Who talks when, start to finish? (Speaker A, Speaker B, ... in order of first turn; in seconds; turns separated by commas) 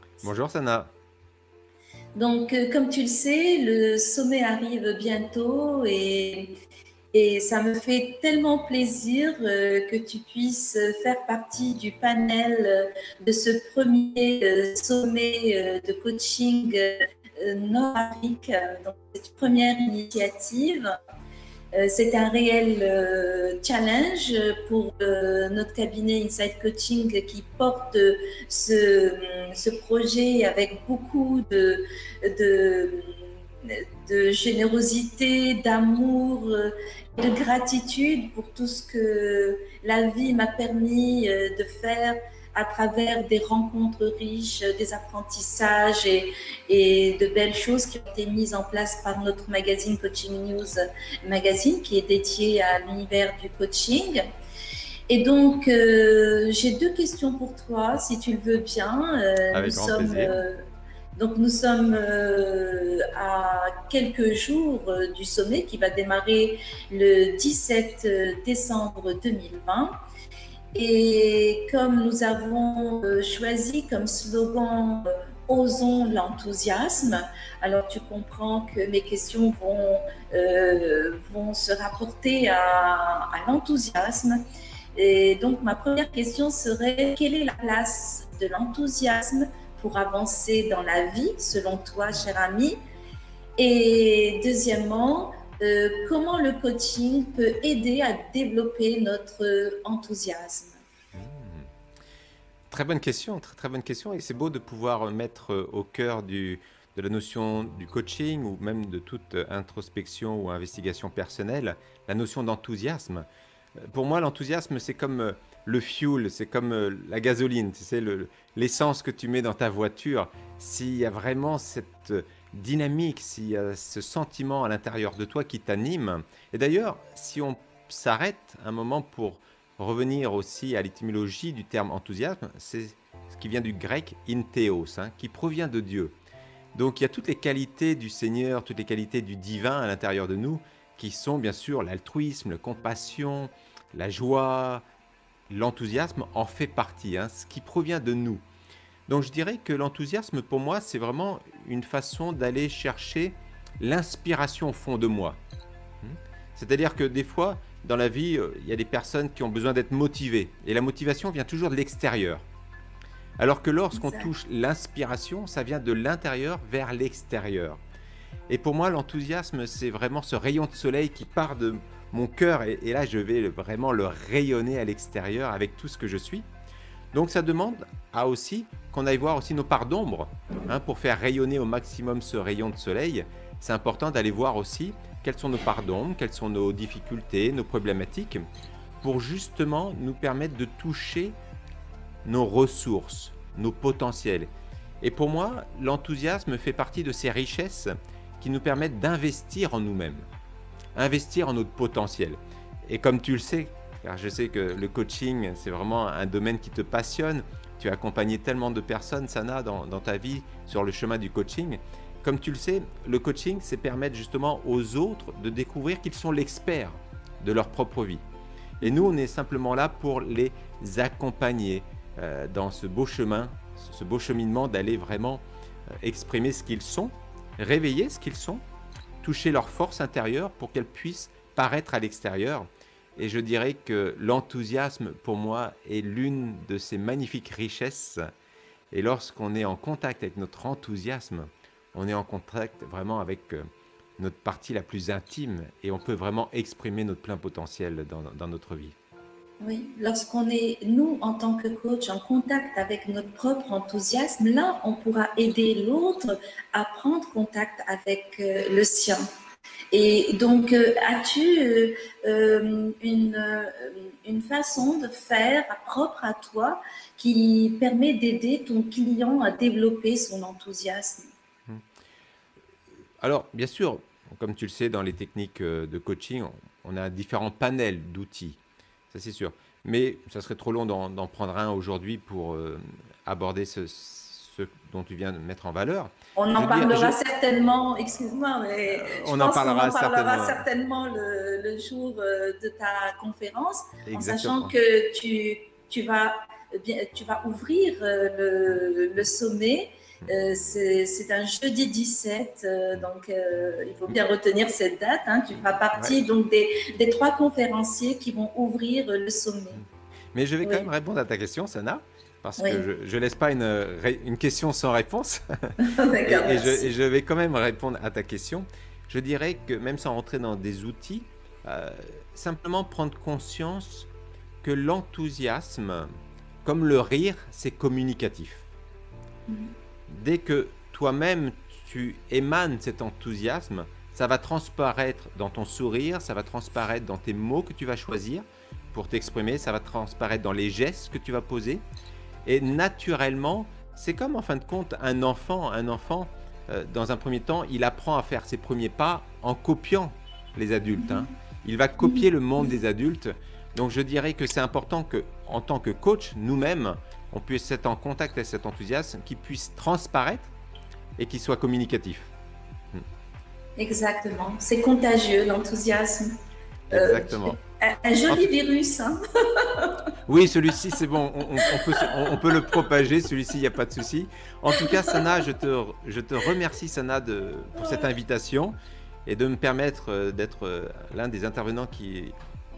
Speaker A: 0.2-0.9, Speaker B: 2.1-6.5, Speaker B: 7.1-20.9, Speaker B: 21.7-54.2, Speaker B: 55.1-60.6, Speaker A: 59.5-60.4, Speaker B: 61.1-70.0, Speaker B: 70.7-84.4, Speaker B: 85.0-92.8, Speaker B: 93.6-100.8, Speaker A: 101.1-101.7, Speaker A: 102.7-113.2, Speaker A: 113.8-136.2, Speaker A: 136.7-144.8, Speaker A: 145.5-148.4, Speaker A: 149.1-155.4, Speaker A: 156.0-162.4, Speaker A: 163.4-167.8, Speaker B: 163.9-164.3, Speaker A: 168.5-176.5, Speaker A: 177.1-188.4, Speaker A: 189.0-191.3, Speaker A: 192.2-200.2, Speaker A: 200.9-218.2, Speaker A: 218.8-225.4, Speaker B: 218.8-219.1, Speaker A: 226.0-228.6, Speaker A: 229.2-238.2, Speaker A: 238.9-243.6, Speaker A: 244.2-248.9, Speaker B: 249.6-259.2, Speaker B: 259.9-271.3, Speaker A: 273.2-278.6, Speaker A: 279.1-287.1, Speaker B: 286.4-309.8, Speaker A: 288.9-290.6, Speaker A: 294.1-294.7, Speaker A: 309.8-315.4, Speaker B: 310.6-310.9, Speaker B: 312.6-312.8, Speaker B: 315.8-316.9, Speaker A: 316.2-324.1, Speaker A: 324.6-326.1, Speaker A: 326.6-328.7, Speaker A: 330.1-341.8, Speaker A: 342.4-360.5, Speaker B: 351.0-351.3, Speaker B: 352.0-352.7, Speaker A: 361.2-362.3, Speaker B: 363.8-366.3, Speaker A: 366.9-367.6, Speaker B: 366.9-369.9, Speaker A: 370.3-378.7, Speaker B: 371.6-372.1, Speaker B: 374.8-375.2, Speaker B: 377.8-378.1, Speaker A: 379.2-382.3